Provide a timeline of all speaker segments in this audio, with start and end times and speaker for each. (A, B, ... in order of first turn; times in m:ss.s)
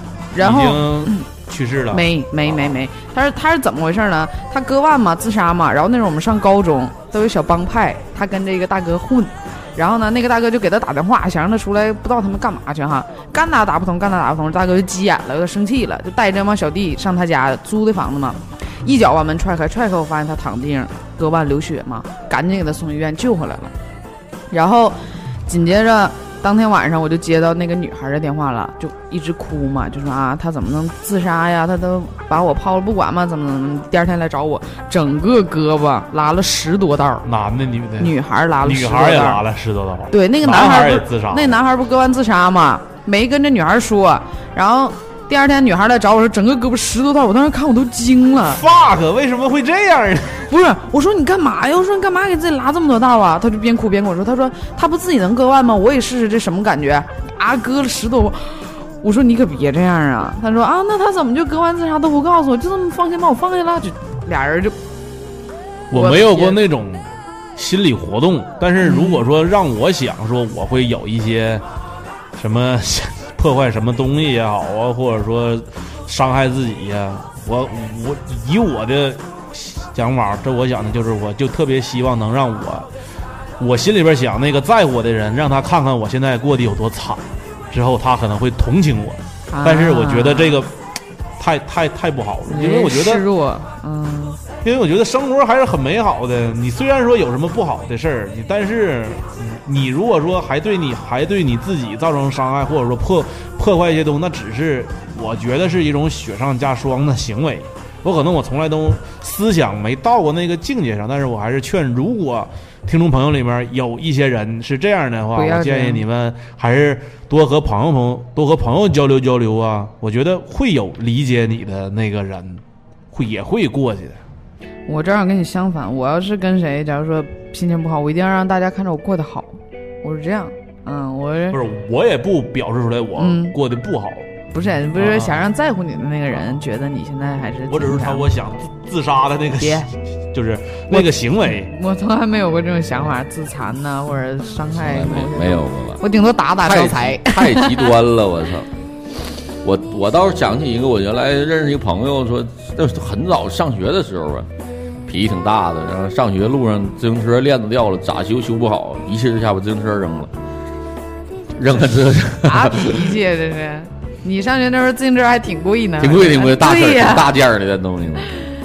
0:00.3-0:01.3 A
0:00.4-0:02.8 B
0:01.9-0:23.7 A
0:24.5-0:37.3 A
0:37.2-0:41.6 B
0:38.0-0:39.4 A
0:40.1-0:48.6 A
0:48.5-0:50.5 B
0:50.5-1:04.8 A
1:05.9-1:11.6 B
1:05.9-1:06.6 A
1:08.8-1:09.3 A
1:12.4-1:22.9 B
1:23.6-1:30.7 B
1:29.5-1:30.6 A
1:31.4-1:33.2 B
1:32.5-1:34.4 A
1:34.6-2:04.2 B
1:55.4-1:56.0 A
2:04.9-2:11.6 A
2:11.5-2:14.3 B
2:13.2-2:13.6 A
2:14.5-2:18.3 A
2:14.9-2:15.4 B
2:17.7-2:21.7 B
2:19.6-2:19.9 A
2:20.9-2:27.9 A
2:24.7-2:26.0 C
2:26.6-2:28.7 C
2:29.6-2:34.5 C
2:35.1-2:40.3 C
2:41.6-2:43.1 C
2:42.4-2:47.3 A
2:46.0-2:48.3 C